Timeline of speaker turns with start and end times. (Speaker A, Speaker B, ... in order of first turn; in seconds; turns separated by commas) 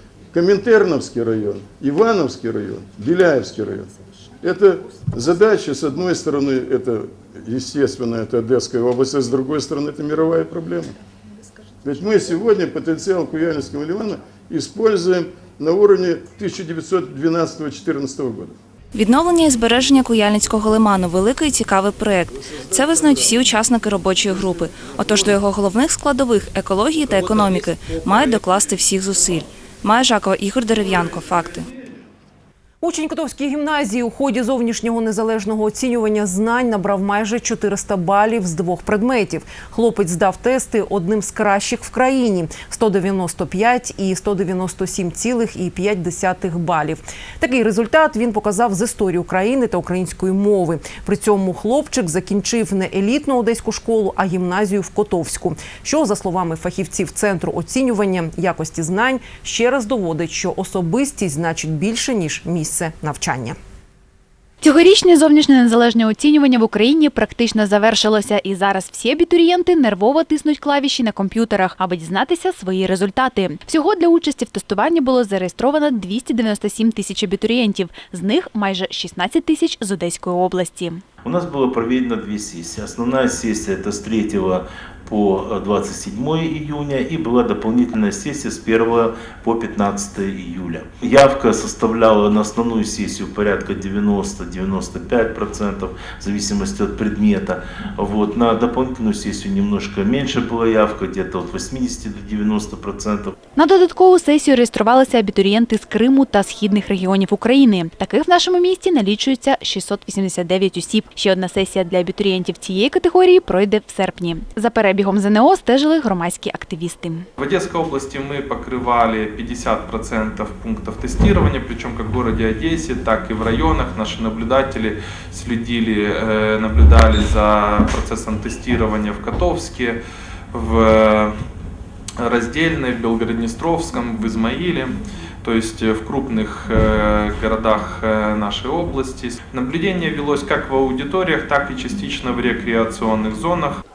Speaker A: 0.3-11.0, Speaker A: 11.8-18.6, Speaker B: 18.9-31.7, Speaker C: 32.8-63.6, Speaker D: 64.6-81.0, Speaker E: 81.2-103.3, Speaker D: 103.6-117.3, Speaker F: 117.4-130.0, Speaker F: 130.5-131.4, Speaker F: 132.2-143.8